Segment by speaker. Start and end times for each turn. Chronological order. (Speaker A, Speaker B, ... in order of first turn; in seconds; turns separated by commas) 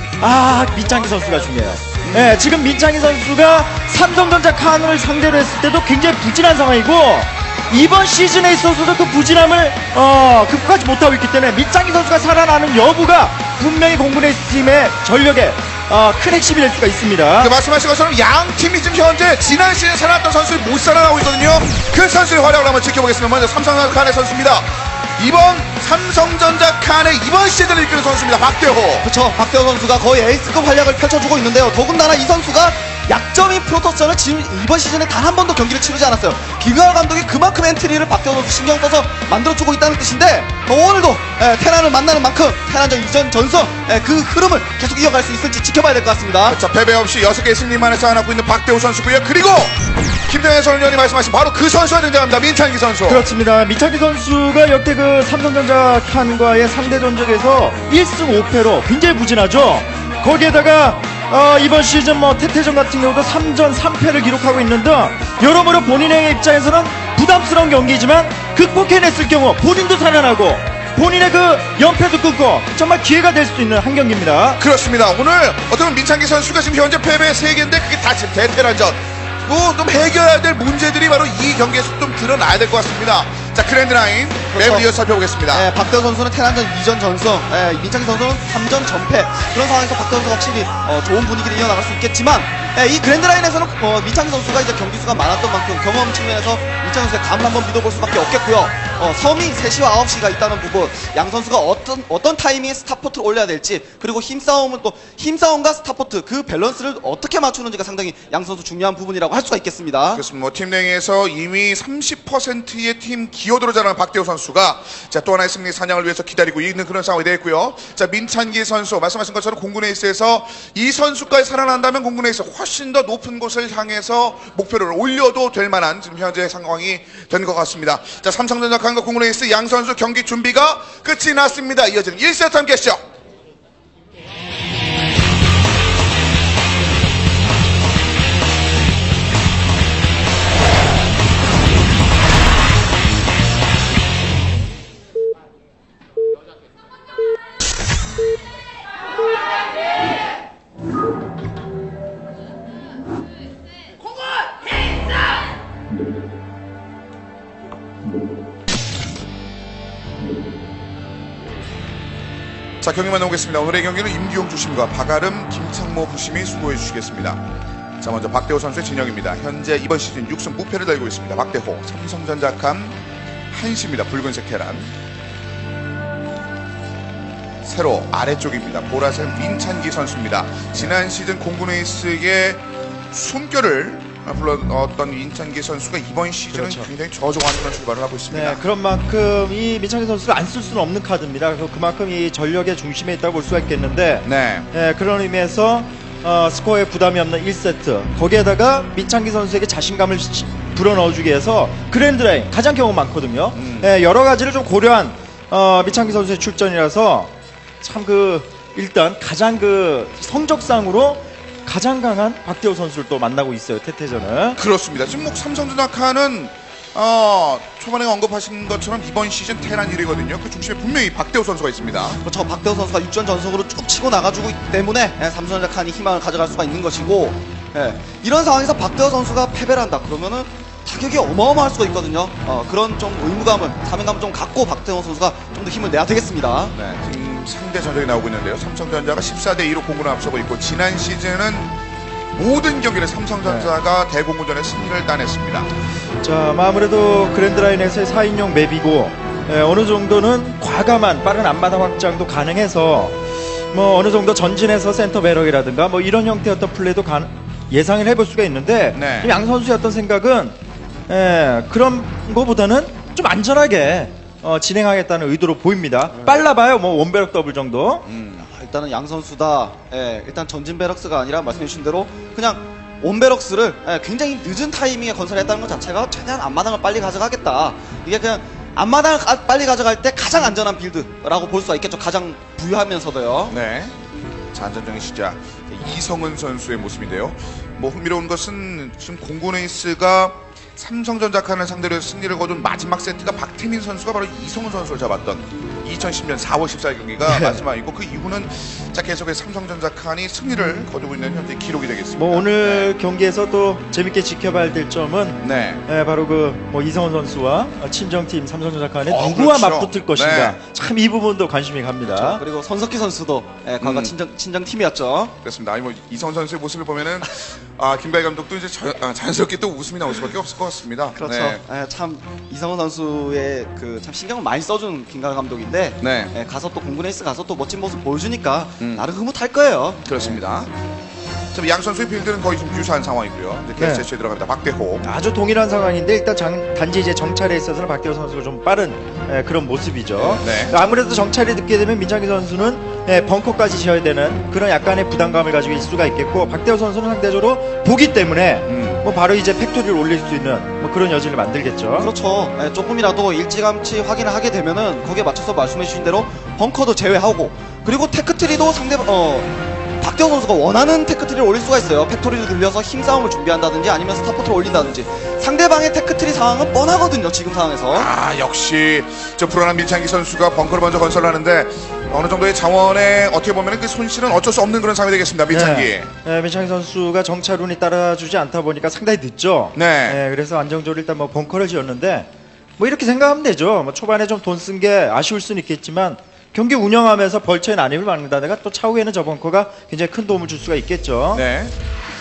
Speaker A: 0.2-17.5, Speaker B: 2.0-2.4, Speaker B: 17.4-29.1, Speaker C: 29.0-46.6, Speaker B: 46.5-53.2, Speaker A: 53.0-74.6, Speaker B: 74.6-85.7, Speaker C: 84.5-84.9, Speaker C: 85.5-110.2, Speaker B: 110.1-133.0, Speaker B: 162.8-167.4, Speaker B: 168.0-173.0, Speaker B: 173.5-174.9, Speaker B: 177.6-188.6, Speaker A: 186.5-186.9, Speaker A: 188.3-214.6, Speaker B: 194.2-194.7, Speaker B: 203.5-203.9, Speaker B: 214.6-222.2, Speaker C: 222.2-236.7, Speaker B: 236.7-241.7, Speaker B: 242.3-245.7, Speaker A: 243.4-243.7, Speaker A: 246.2-253.2, Speaker A: 253.7-260.6, Speaker B: 258.9-259.3, Speaker A: 261.1-268.0, Speaker B: 268.1-268.5, Speaker C: 268.4-283.6, Speaker B: 283.5-283.9, Speaker B: 284.5-302.9, Speaker A: 297.2-297.6, Speaker A: 302.2-312.4, Speaker B: 305.4-305.8, Speaker B: 309.1-310.6, Speaker C: 312.0-315.3, Speaker B: 313.8-314.1, Speaker B: 315.4-321.6, Speaker C: 321.1-330.3, Speaker B: 326.0-326.3, Speaker B: 330.0-330.7, Speaker B: 331.5-335.1, Speaker A: 333.8-334.0, Speaker A: 335.0-352.1, Speaker B: 340.4-340.8, Speaker B: 348.7-349.0, Speaker C: 352.0-359.5, Speaker C: 360.0-368.1, Speaker B: 367.9-376.1, Speaker A: 375.5-391.4, Speaker B: 379.7-380.2, Speaker B: 391.3-391.7